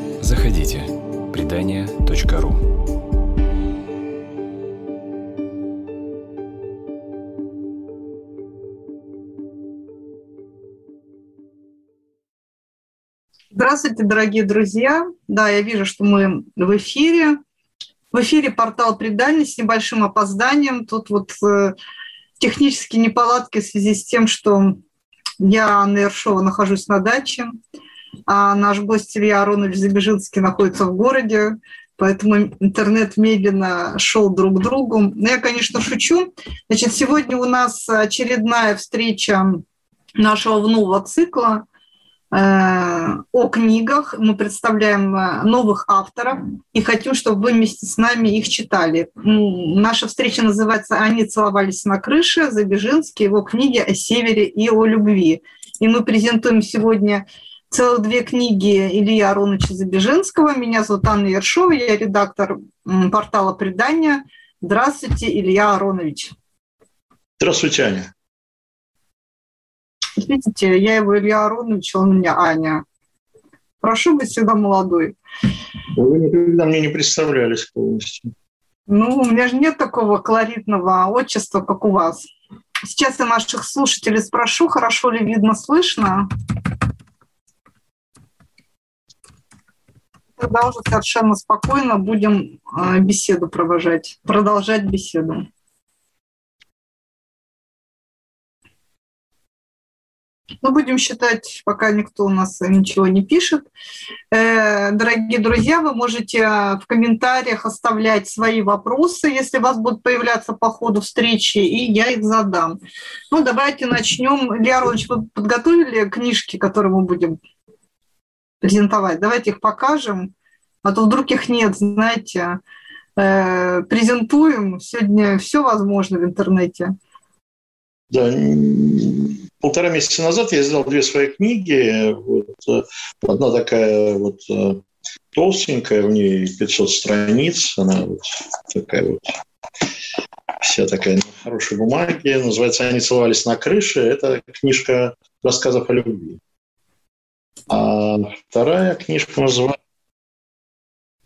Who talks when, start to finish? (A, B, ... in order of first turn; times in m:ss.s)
0:00.2-0:02.8 A
0:13.5-0:17.4 B
0:18.1-0:21.8 B
0:22.4-0:24.8 B
0:25.4-0:27.6 B
0:28.3-0:39.6 B
0:40.2-0:41.6 B
0:42.3-1:06.3 B
1:07.4-1:08.1 C
1:10.2-1:12.8 B
1:13.8-1:15.2 B
1:16.0-1:18.3 C
1:18.9-1:22.3 B
1:22.8-1:26.3 B
1:30.4-1:35.4 B
1:40.6-1:43.7 B
1:44.3-1:52.8 B
1:53.3-1:57.4 B
1:58.6-2:00.3 B
2:00.8-2:02.6 B
2:03.2-2:06.9 B
2:08.1-2:14.8 C
2:15.3-2:19.4 C
2:20.6-2:26.4 C
2:27.7-2:29.8 C